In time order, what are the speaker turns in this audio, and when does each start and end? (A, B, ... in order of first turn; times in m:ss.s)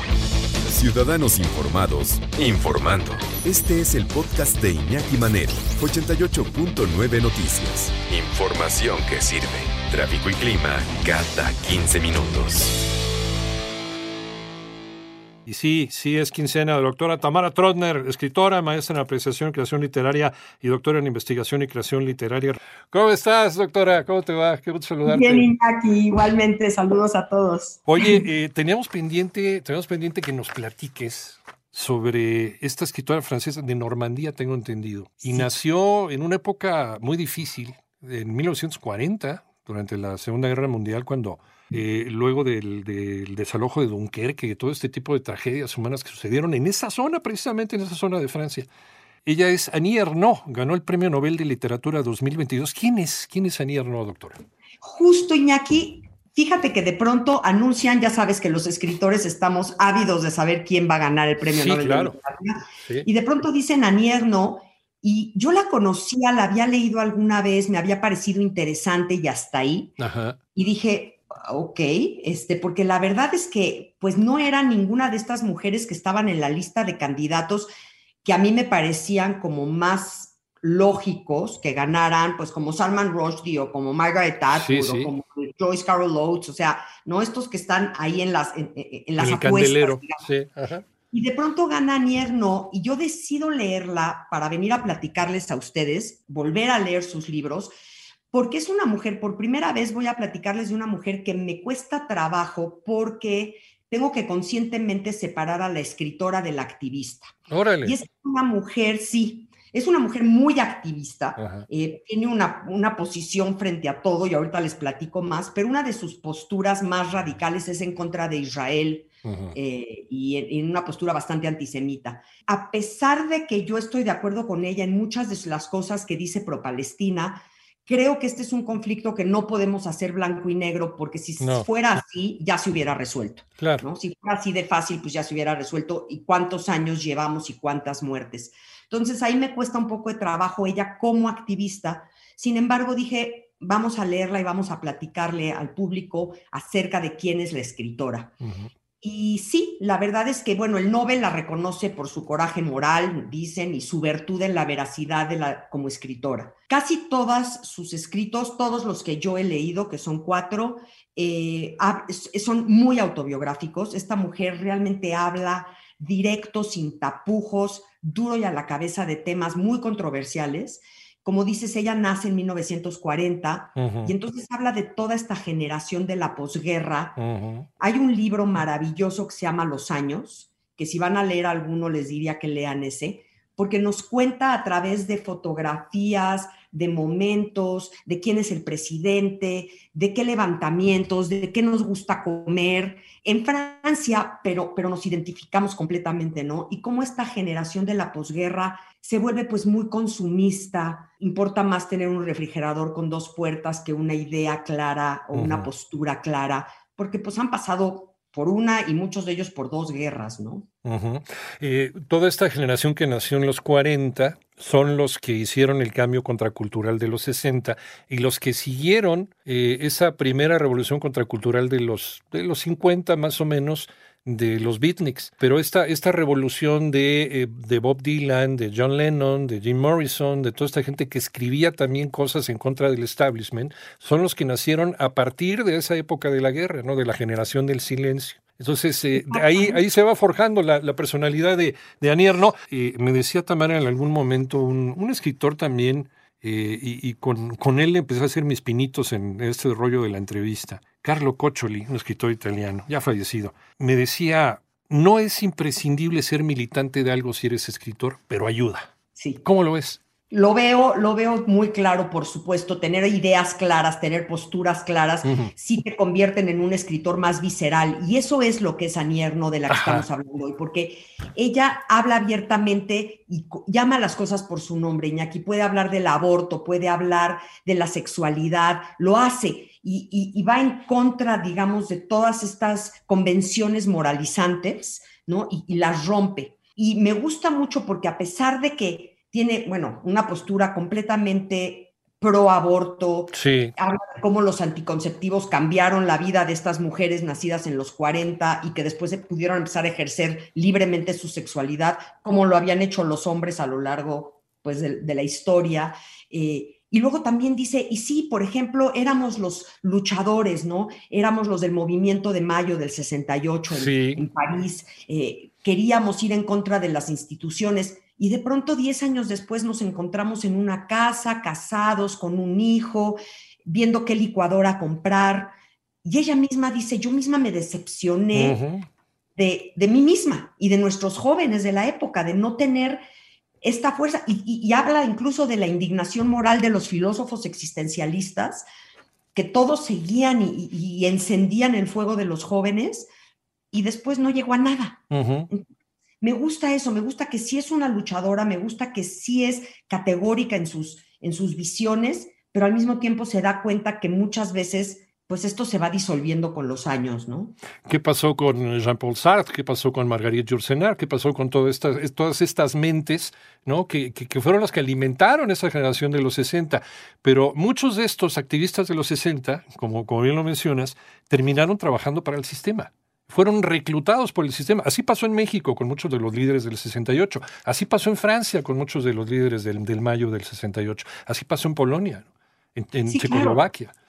0:00.6-0:12.7 A
0:15.5-0:25.5 B
0:25.0-0:28.2 C
0:27.8-0:48.7 B
0:35.2-0:35.5 C
0:49.2-0:54.4 B
0:54.8-1:10.0 C
1:01.4-1:02.2 B
1:02.8-1:03.1 B
1:10.0-1:10.4 B
1:10.5-1:17.7 C
1:18.2-1:30.3 C
1:24.5-1:25.1 B
1:29.2-1:30.8 B
1:31.1-1:37.7 C
1:38.3-2:28.3 C
1:47.5-1:48.0 B
1:51.4-1:51.6 B
1:59.2-1:59.5 B
2:11.4-2:11.8 B
2:13.6-2:13.8 B
2:28.4-2:28.7 B
2:29.0-2:57.2 C
2:53.8-2:54.2 B
2:57.2-2:57.7 B
2:57.8-3:30.7 C
3:25.3-3:25.7 B
3:30.8-4:18.9 B
3:59.1-3:59.8 C
4:19.2-4:19.4 C
4:19.4-4:20.0 B
4:20.3-5:25.5 C
4:25.2-4:25.5 B
4:29.7-4:30.0 B
4:53.3-4:53.7 B
5:13.7-5:14.2 B
5:26.0-5:28.6 C
5:28.3-5:28.9 B
5:29.4-5:33.0 C
5:33.6-5:38.6 C
5:39.3-5:43.1 C
5:43.7-5:57.6 C
5:45.1-5:45.5 B
5:57.8-6:23.9 B
6:23.1-6:23.6 C